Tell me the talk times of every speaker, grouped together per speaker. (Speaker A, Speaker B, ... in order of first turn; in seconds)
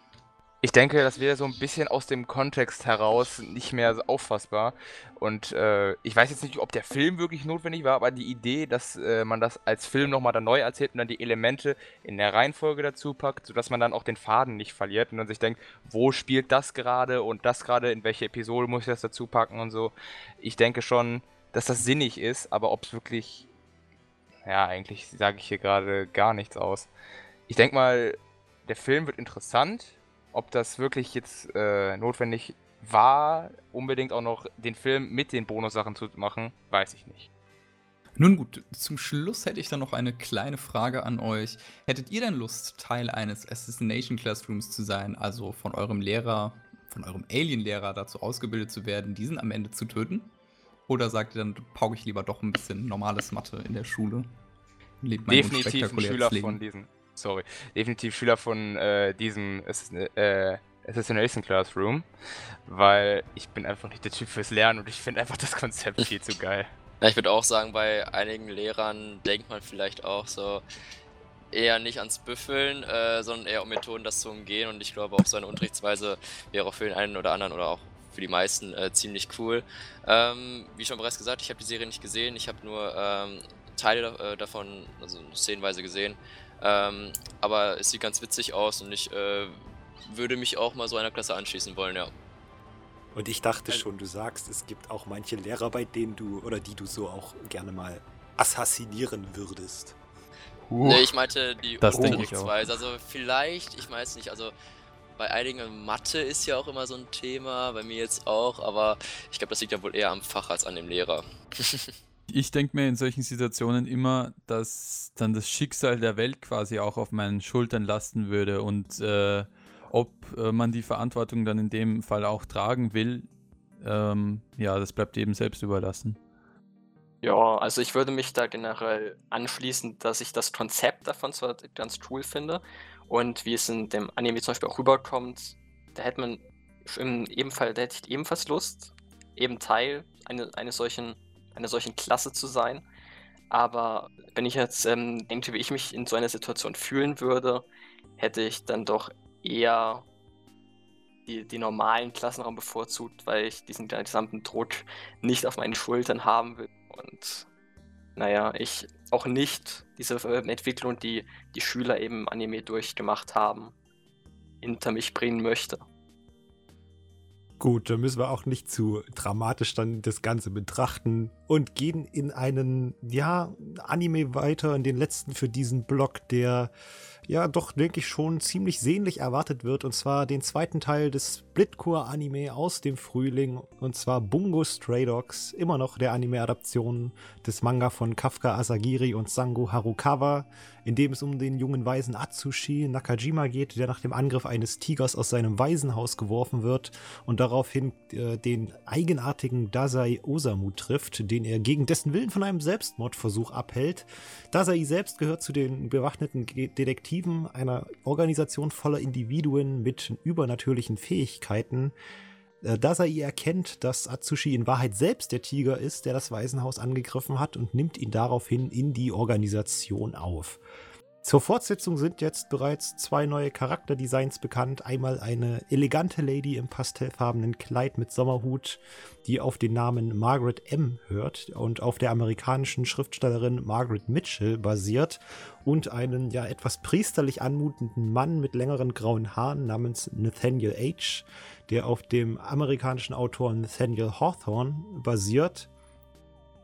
Speaker A: 0.6-23.5, 24.5-26.9, 27.5-37.3, 55.3-62.1, 62.7-66.7, 100.7-101.1
Speaker B: 38.2-50.3, 50.9-54.3, 55.0-56.6
Speaker C: 67.0-70.6, 71.5-92.1, 100.8-104.5, 105.2-111.9
Speaker D: 93.1-100.0, 167.6-176.7, 177.3-211.9, 212.6-220.6, 221.2-245.7
Speaker E: 101.8-102.5, 112.3-123.3, 123.8-126.2
Speaker F: 127.2-142.8, 143.5-147.7, 148.2-150.1, 151.3-157.5, 158.2-163.7, 164.6-165.8